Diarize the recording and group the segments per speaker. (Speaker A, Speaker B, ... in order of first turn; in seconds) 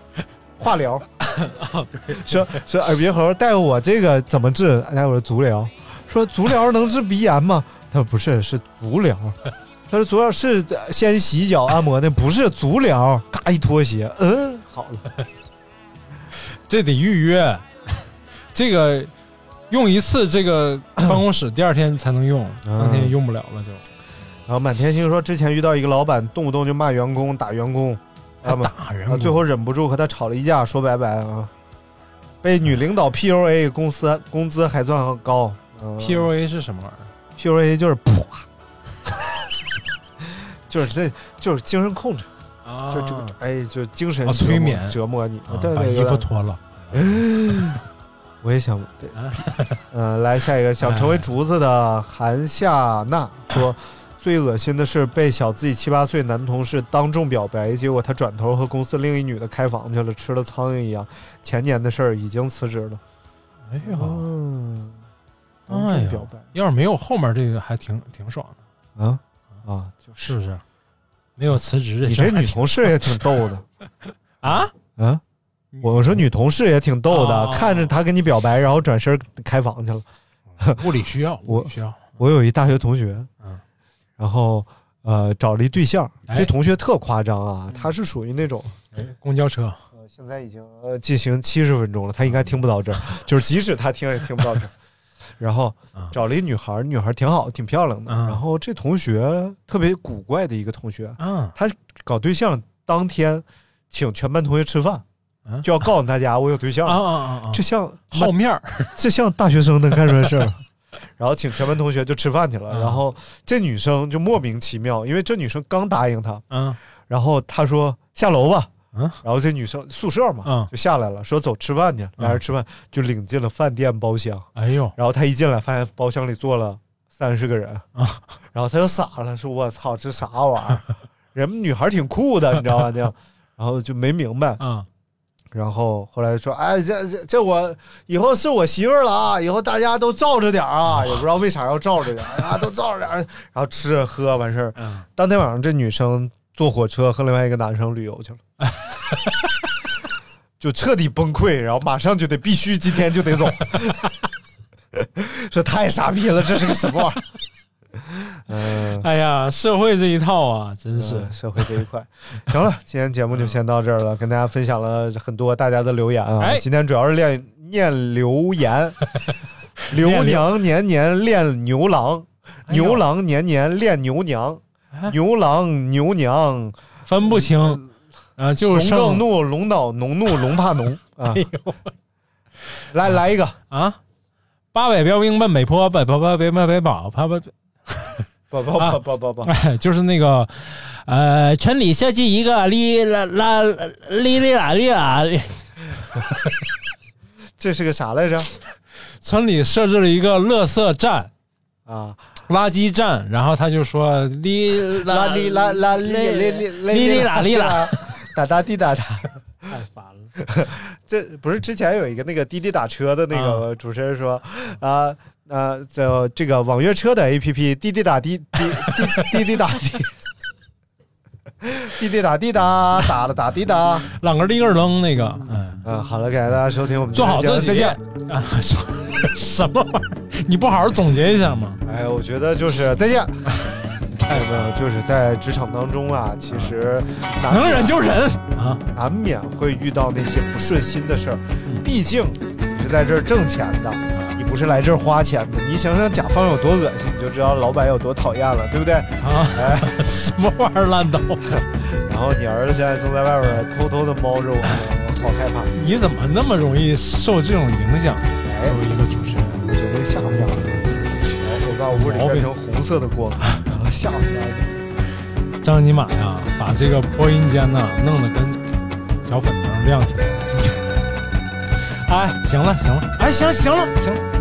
Speaker A: 0.6-1.1, 2.1-9.4, 9.9-15.1, 22.6-23.1, 24.5-31.5, 32.4-36.3, 37.4-38.5, 40.2-42.3, 42.9-46.3, 46.9-47.8, 48.4-63.0, 63.8-65.0, 65.7-66.5, 69.0-70.3, 72.0-73.6, 75.0-75.2, 75.8-80.0, 81.5-83.3, 84.2-89.1, 89.9-94.7, 95.4-105.0, 105.6-108.3, 108.9-110.6, 111.2-116.4, 117.1-118.7, 119.2-127.8, 128.5-134.6, 135.5-148.4, 150.6-154.1, 154.9-157.2, 158.0-159.1, 160.9-169.0, 169.9-177.9, 178.7-181.4, 182.9-183.6, 188.5-189.5, 197.6-198.5, 201.8-202.2, 204.9-209.4, 210.4-220.1, 221.6-224.1, 225.8-228.0, 231.8-233.5, 234.3-238.1, 238.9-250.0, 251.5-255.7, 258.4-258.8, 259.5-264.9
Speaker B: 1.2-2.6, 16.6-19.1, 19.7-23.8, 28.4-29.4, 36.0-37.1, 42.6-43.4, 44.2-47.8, 49.1-49.8, 50.8-51.3, 63.7-64.3, 65.7-68.6, 70.2-70.6, 71.4-73.4, 74.4-74.7, 75.7-76.2, 77.1-77.9, 80.6-82.2, 86.3-86.5, 89.0-89.8, 98.1-98.4, 101.2-101.5, 106.8-109.0, 110.1-110.5, 112.7-113.0, 116.5-116.8, 120.4-120.7, 124.5-124.9, 128.0-128.3, 134.6-134.9, 144.8-145.1, 148.6-149.5, 158.8-161.3, 166.4-166.6, 169.9-170.5, 172.7-173.0, 177.1-177.8, 178.4-179.3, 181.3-181.9, 183.7-184.0, 184.7-188.2, 188.8-196.2, 199.2-201.3, 202.5-208.1, 209.7-210.3, 213.3-213.6, 218.8-219.5, 224.1-225.8, 227.1-231.8, 233.5-234.6, 237.4-238.8, 249.2-251.6, 255.7-259.6, 261.2-262.5, 265.6-271.0, 271.8-274.2